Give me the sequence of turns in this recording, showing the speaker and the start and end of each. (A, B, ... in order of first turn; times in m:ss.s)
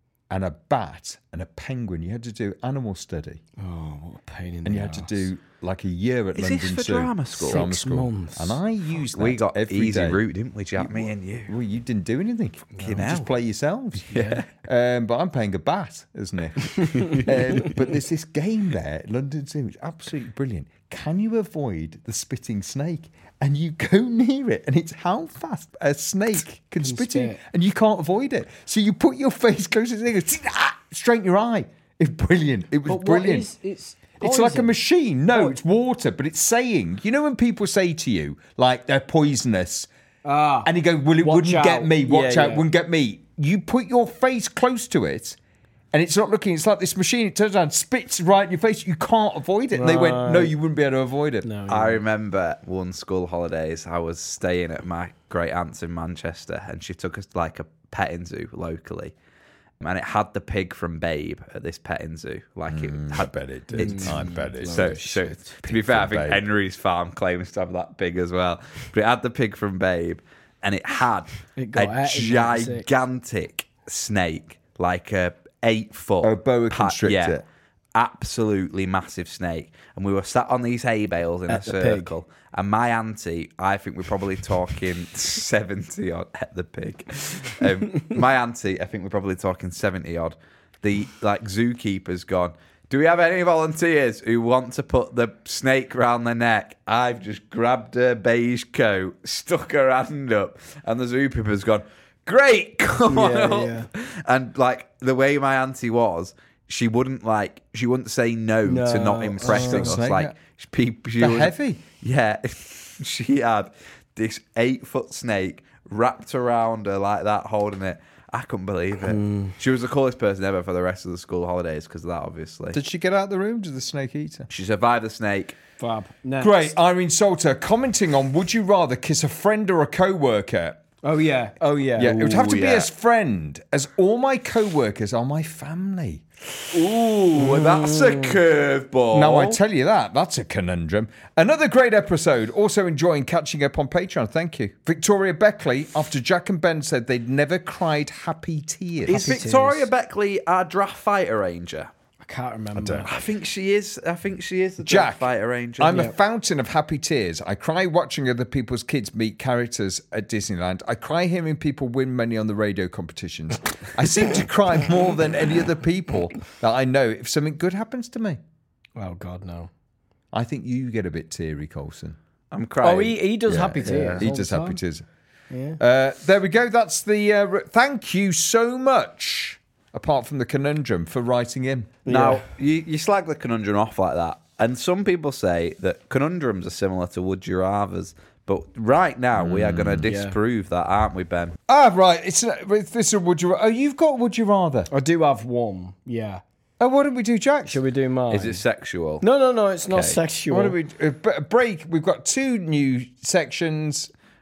0:00.3-0:03.4 A
0:03.6-0:05.3 B
0:04.6-0:10.2 A
0:06.3-0:07.7 C
0:07.4-0:08.6 B
0:09.1-0:11.5 C
0:10.8-0:33.5 A
0:12.8-0:13.2 B
0:12.8-0:13.3 C
0:14.0-0:14.5 C
0:16.9-0:17.3 C
0:26.8-0:27.4 B
0:32.8-0:34.8 B
0:34.2-0:39.9 A
0:40.2-0:40.7 B
0:40.6-0:45.4 A
0:41.2-0:42.6 B
0:45.9-0:51.5 A
0:49.7-0:50.5 B
0:51.4-0:52.0 B
0:51.7-0:59.1 C
0:59.8-1:17.4 C
1:02.7-1:06.4 A
1:03.8-1:05.4 B
1:11.6-1:12.9 B
1:16.2-1:17.4 A
1:17.9-2:02.8 C
1:21.5-1:22.1 B
1:43.0-1:43.9 B
1:48.6-1:50.0 B
1:49.4-1:50.4 A
1:51.2-1:51.8 A
1:59.1-1:59.5 B
2:02.7-2:04.5 A
2:04.5-2:05.6 C
2:05.8-2:06.7 B
2:06.4-2:10.8 A
2:11.0-2:12.3 B
2:12.0-2:16.2 A
2:12.0-2:12.9 C
2:16.7-2:19.6 C
2:17.5-2:18.3 B
2:19.1-2:29.4 A
2:29.0-2:31.9 C
2:29.1-2:29.9 B
2:32.2-2:33.1 B
2:32.8-2:33.1 A
2:33.0-2:36.0 C
2:34.8-2:48.4 A
2:49.0-2:49.7 B
2:50.3-2:52.2 A
2:52.5-2:53.3 C
2:52.8-2:54.8 B
2:53.5-2:55.0 A
2:53.8-2:54.2 C
2:55.5-2:55.8 B
2:55.8-3:02.0 A
3:02.0-3:02.4 B
3:02.1-3:11.6 C
3:09.4-3:10.1 A
3:10.0-3:10.4 B
3:11.7-3:14.9 A
3:14.9-3:16.4 B
3:16.8-3:17.8 A
3:17.7-3:18.6 B
3:18.3-3:19.2 C
3:19.2-3:20.8 B
3:19.9-3:20.2 C
3:20.5-3:24.1 A